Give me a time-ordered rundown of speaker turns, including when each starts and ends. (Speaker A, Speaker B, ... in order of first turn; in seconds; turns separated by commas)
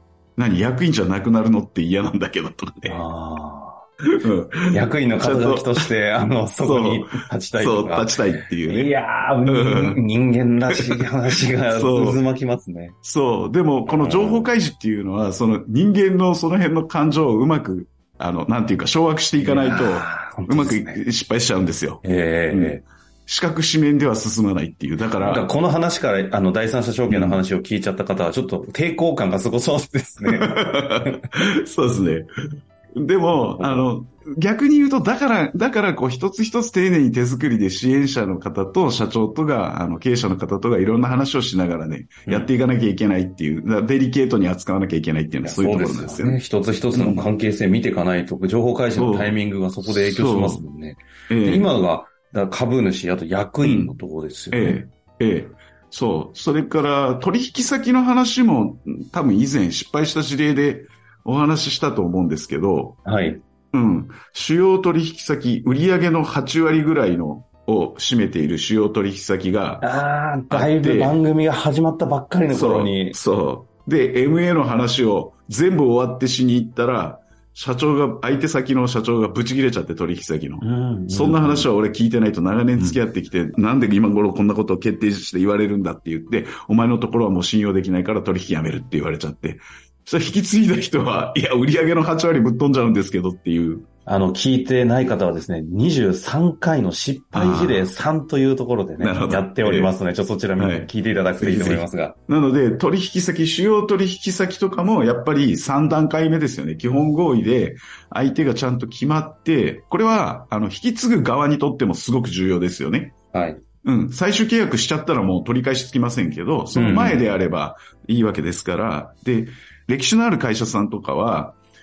Speaker A: 0.4-3.0, Speaker B: 2.9-3.9, Speaker A: 4.1-5.9, Speaker B: 4.7-13.0, Speaker A: 6.6-8.9, Speaker A: 9.5-10.1, Speaker A: 10.7-12.2, Speaker A: 13.0-25.5, Speaker B: 13.9-14.5, Speaker B: 19.4-21.0, Speaker B: 22.0-22.8, Speaker B: 25.2-31.3, Speaker A: 27.1-27.4, Speaker A: 30.2-32.3, Speaker A: 33.0-46.4, Speaker B: 33.6-33.9, Speaker B: 42.3-42.5, Speaker B: 45.4-54.8, Speaker A: 46.9-47.3, Speaker A: 49.0-50.6, Speaker A: 51.3-51.7, Speaker A: 53.6-54.0, Speaker A: 54.5-63.0, Speaker B: 63.0-63.4, Speaker A: 63.7-69.9, Speaker B: 69.8-73.2, Speaker A: 70.5-71.2, Speaker A: 72.5-93.9, Speaker B: 80.6-81.7, Speaker B: 82.8-83.0, Speaker B: 94.0-102.2, Speaker A: 97.3-97.9, Speaker A: 99.0-99.9, Speaker A: 100.6-113.2, Speaker B: 113.3-113.6, Speaker A: 113.8-121.6, Speaker B: 116.8-117.3